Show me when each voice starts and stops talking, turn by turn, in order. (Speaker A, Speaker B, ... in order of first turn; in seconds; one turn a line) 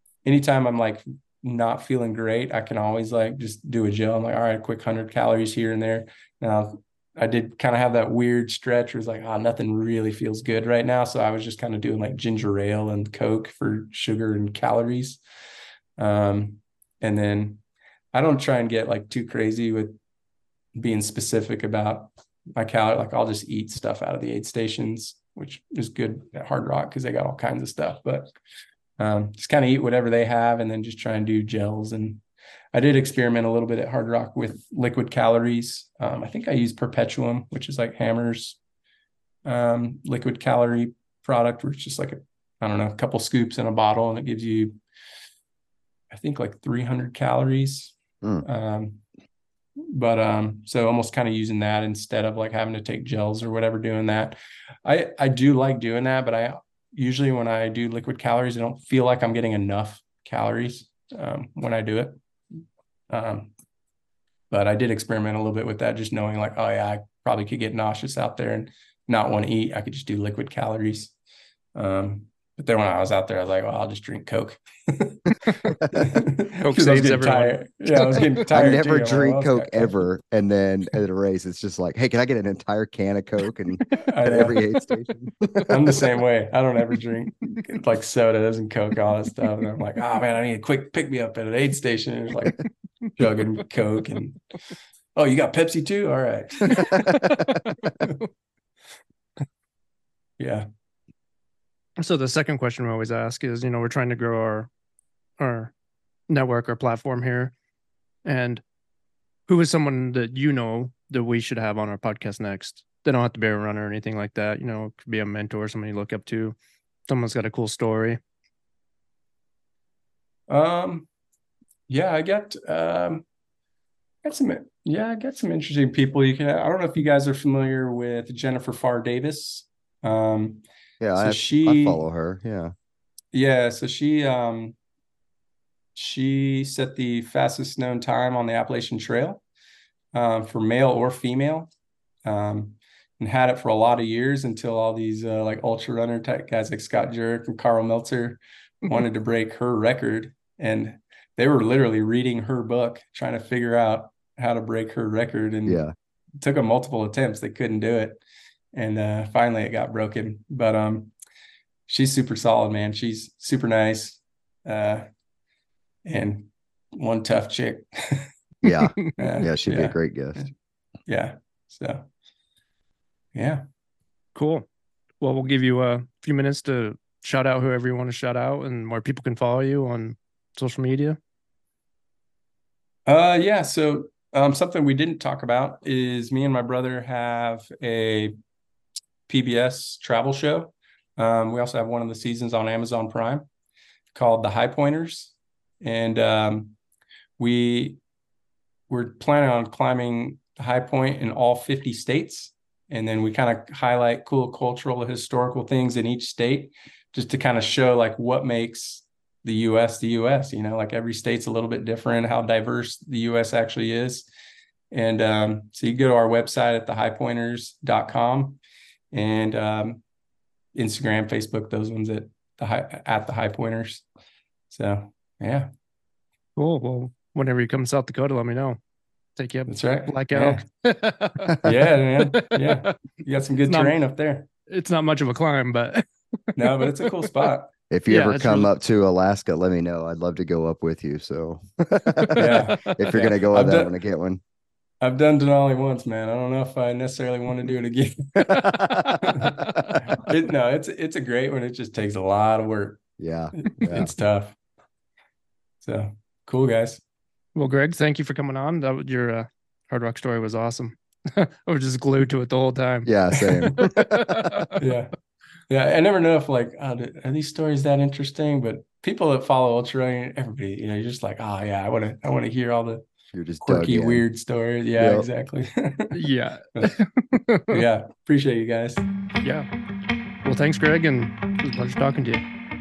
Speaker A: 0.2-15.2
Speaker A: 16.0-17.6
Speaker A: 18.1-19.9
Speaker A: 20.7-28.3
Speaker A: 29.0-32.2
Speaker A: 32.7-38.6
Speaker A: 39.4-44.8
Speaker A: 46.1-49.0
Speaker A: 49.8-62.2
Speaker A: 63.1-63.5
Speaker A: 64.5-71.1
Speaker A: 71.7-80.0
Speaker B: 76.6-78.4
Speaker C: 78.5-85.7
Speaker A: 84.0-84.6
Speaker A: 85.7-92.6
Speaker A: 93.2-94.4
Speaker A: 95.2-97.2
Speaker B: 96.8-97.6
Speaker A: 100.4-100.7
Speaker B: 102.0-104.7
Speaker B: 105.4-105.7
Speaker B: 106.3-107.5
Speaker B: 108.2-108.6
Speaker B: 109.5-116.5
Speaker B: 117.1-118.2
Speaker A: 120.5-121.1
Speaker A: 121.9-123.2
Speaker A: 124.2-130.6
Speaker C: 131.0-132.7
Speaker A: 131.1-132.1
Speaker A: 133.3-134.8
Speaker A: 135.9-139.4
Speaker A: 140.1-141.7
Speaker A: 142.2-155.8
Speaker C: 155.7-155.9
Speaker A: 156.4-158.2
Speaker A: 158.7-161.1
Speaker A: 161.9-165.1
Speaker A: 166.1-168.3
Speaker C: 168.6-170.5
Speaker B: 168.7-169.0
Speaker A: 169.2-170.5
Speaker A: 171.1-172.1
Speaker A: 173.3-173.6
Speaker B: 174.3-174.6
Speaker B: 175.2-181.2
Speaker A: 183.1-188.3
Speaker A: 189.3-193.4
Speaker A: 194.1-196.7
Speaker A: 197.4-198.0
Speaker A: 198.9-214.3
Speaker A: 214.9-218.6
Speaker A: 219.1-220.0
Speaker A: 220.7-224.0
Speaker A: 224.7-225.7
Speaker B: 226.6-228.8
Speaker B: 229.4-232.9
Speaker A: 229.7-230.6
Speaker A: 231.6-234.5
Speaker B: 233.7-233.9
Speaker B: 234.7-237.5
Speaker A: 236.6-237.7
Speaker C: 237.9-244.4
Speaker B: 238.1-238.7
Speaker B: 242.2-243.3
Speaker A: 242.3-243.9
Speaker A: 245.0-253.0
Speaker C: 248.5-249.1
Speaker B: 248.8-250.0
Speaker C: 253.2-254.1
Speaker A: 253.6-254.6
Speaker A: 255.8-257.0
Speaker B: 257.5-264.8
Speaker C: 263.0-263.9
Speaker A: 264.8-265.1
Speaker A: 265.7-273.0
Speaker C: 273.3-274.2
Speaker A: 273.6-276.1
Speaker C: 275.0-275.3
Speaker B: 276.1-277.8
Speaker A: 277.7-279.0
Speaker B: 280.4-282.4